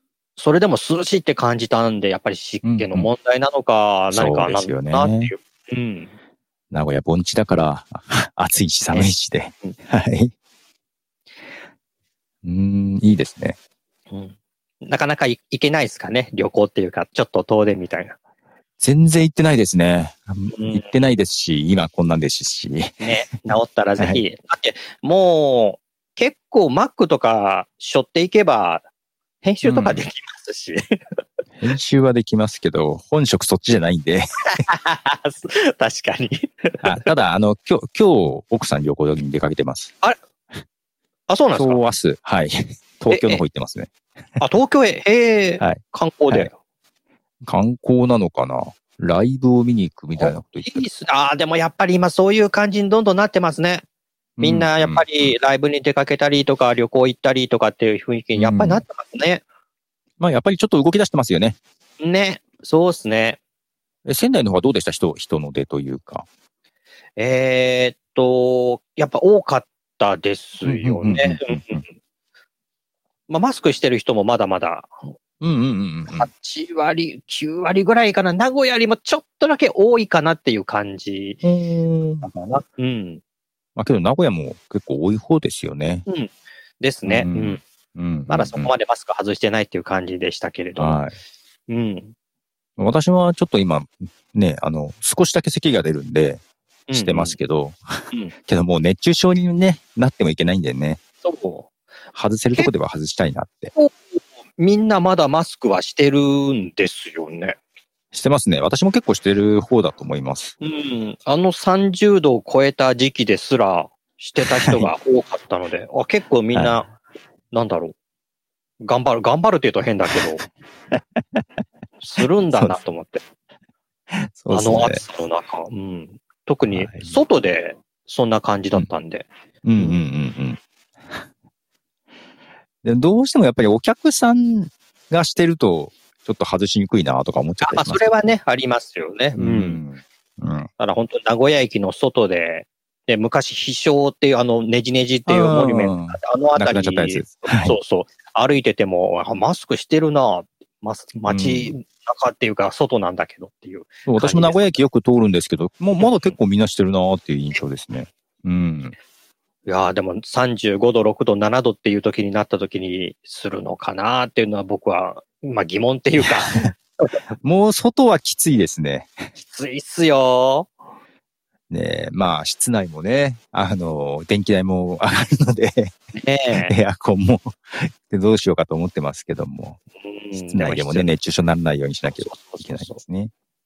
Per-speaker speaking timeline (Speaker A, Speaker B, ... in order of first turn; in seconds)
Speaker A: 0.4-6.1, 14.1-18.2, 20.5-20.9, 23.0-28.8, 29.4-31.0, 34.6-37.0, 41.3-41.8, 43.1-43.4, 44.4-46.5, 50.2-53.8, 54.4-59.4, 62.0-63.4, 67.2-71.8, 73.3-74.9, 76.1-81.4, 82.2-83.2, 86.1-87.6, 88.3-91.1, 91.7-92.1, 96.9-97.4, 101.2-101.7, 104.6-107.6, 110.6-116.9, 117.5-117.9, 118.8-120.4, 122.0-123.2, 124.5-130.0, 137.6-139.8, 140.8-154.8, 156.0-156.4, 159.7-166.6, 169.3-170.7, 176.1-176.7, 180.0-181.1, 182.1-183.0
Speaker B: 2.6-3.1, 4.1-5.3, 6.7-10.3, 12.4-13.6, 18.8-23.2, 29.6-30.0, 31.6-34.6, 36.8-39.9, 41.6-43.9, 47.4-50.9, 54.4-55.3, 58.4-58.8, 60.2-61.6, 64.1-66.2, 70.6-71.8, 75.4-76.3, 81.4-82.3, 83.8-86.1, 87.1-88.7, 90.8-91.1, 92.8-96.4, 96.9-101.0, 102.1-103.7, 108.1-110.5, 114.4-114.9, 116.5-116.8, 124.1-125.0, 126.7-127.1, 129.6-130.6, 132.8-138.1, 139.3-140.7, 145.3-147.8, 151.3-151.7, 154.1-158.9, 166.2-166.7, 167.4-169.2, 171.7-175.9, 176.5-179.8, 180.3-183.3